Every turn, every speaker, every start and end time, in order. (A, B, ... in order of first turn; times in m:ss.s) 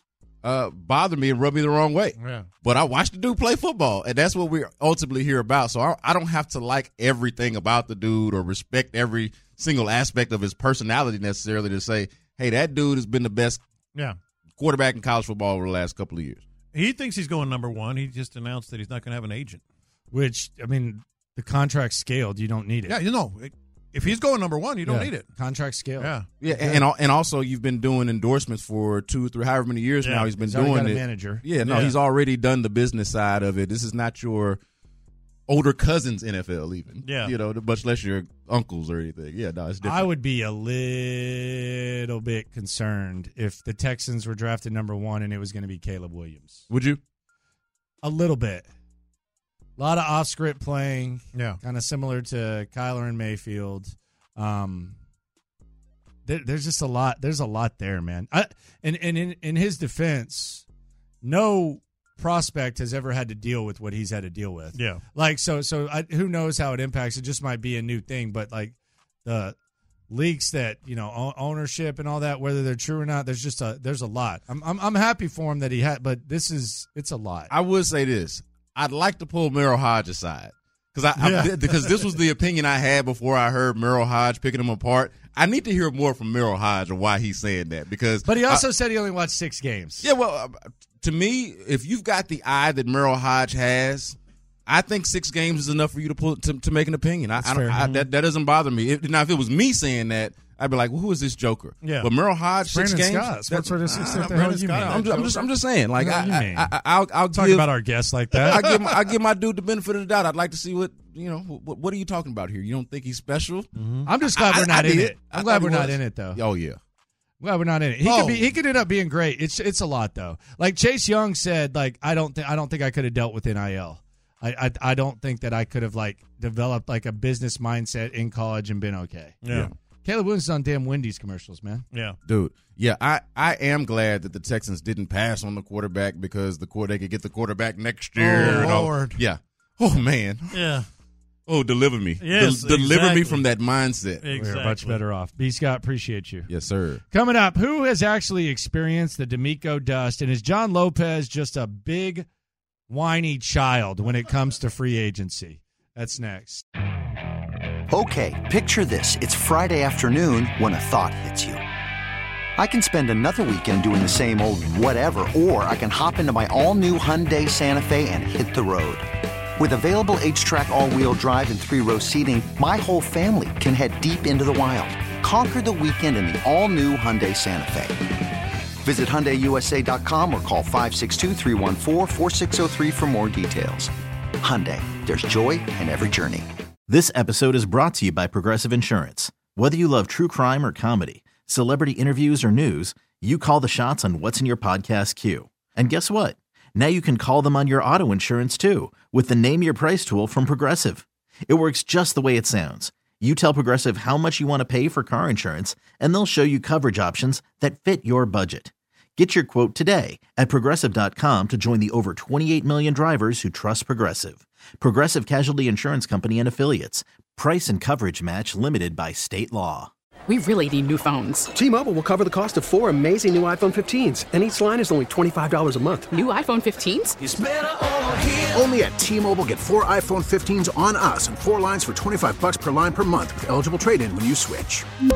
0:00.4-0:13.6 A
0:02.2-0:02.5 B
0:14.6-0:16.4 A
0:16.7-0:19.6 B
0:20.1-0:23.0 C
0:22.9-0:25.3 B
0:24.8-0:26.8 C
0:26.0-0:26.8 B
0:26.4-0:34.6 A
0:30.0-0:30.3 B
0:30.3-0:31.4 C
0:31.6-0:32.0 B
0:35.5-0:40.1 A
0:37.0-0:37.3 B
0:39.8-0:46.6 C
0:46.7-0:47.0 A
0:48.0-0:48.7 C
0:49.8-0:55.0 C
0:51.3-0:51.6 B
0:56.2-1:00.6 C
1:01.2-1:09.6 C
1:04.7-1:05.0 B
1:10.1-1:17.5 C
1:17.5-1:28.6 A
1:21.2-1:21.8 B
1:28.2-1:30.1 C
1:30.0-1:34.2 A
1:34.7-1:47.7 A
1:37.4-1:37.9 C
1:41.8-1:42.1 B
1:42.7-1:45.4 C
1:44.1-1:45.5 B
1:45.9-1:46.7 C
1:47.3-1:48.8 C
1:48.4-1:53.7 A
1:53.8-1:54.1 B
1:54.0-1:56.4 C
1:54.2-1:56.8 A
1:57.4-2:09.4 C
1:58.0-1:58.4 B
2:09.4-2:09.7 B
2:09.5-2:09.7 A
2:10.0-2:11.8 C
2:11.9-2:12.2 B
2:12.2-2:20.7 A
2:18.2-2:19.2 B
2:18.3-2:18.8 C
2:20.5-2:20.9 B
2:21.5-2:24.3 A
2:22.2-2:23.4 B
2:24.2-2:25.0 B
2:24.3-2:26.5 C
2:26.5-2:27.0 A
2:27.1-2:32.3 C
2:32.9-2:36.6 C
2:37.9-2:41.6 D
2:42.6-2:49.0 D
2:49.6-2:57.9 D
2:58.8-3:03.9 D
3:04.4-3:06.4 D
3:06.9-3:39.9 E
3:40.3-3:41.6 F
3:44.0-3:45.8 G
3:46.0-3:47.4 F
3:48.6-3:54.8 H
3:53.0-3:53.5 G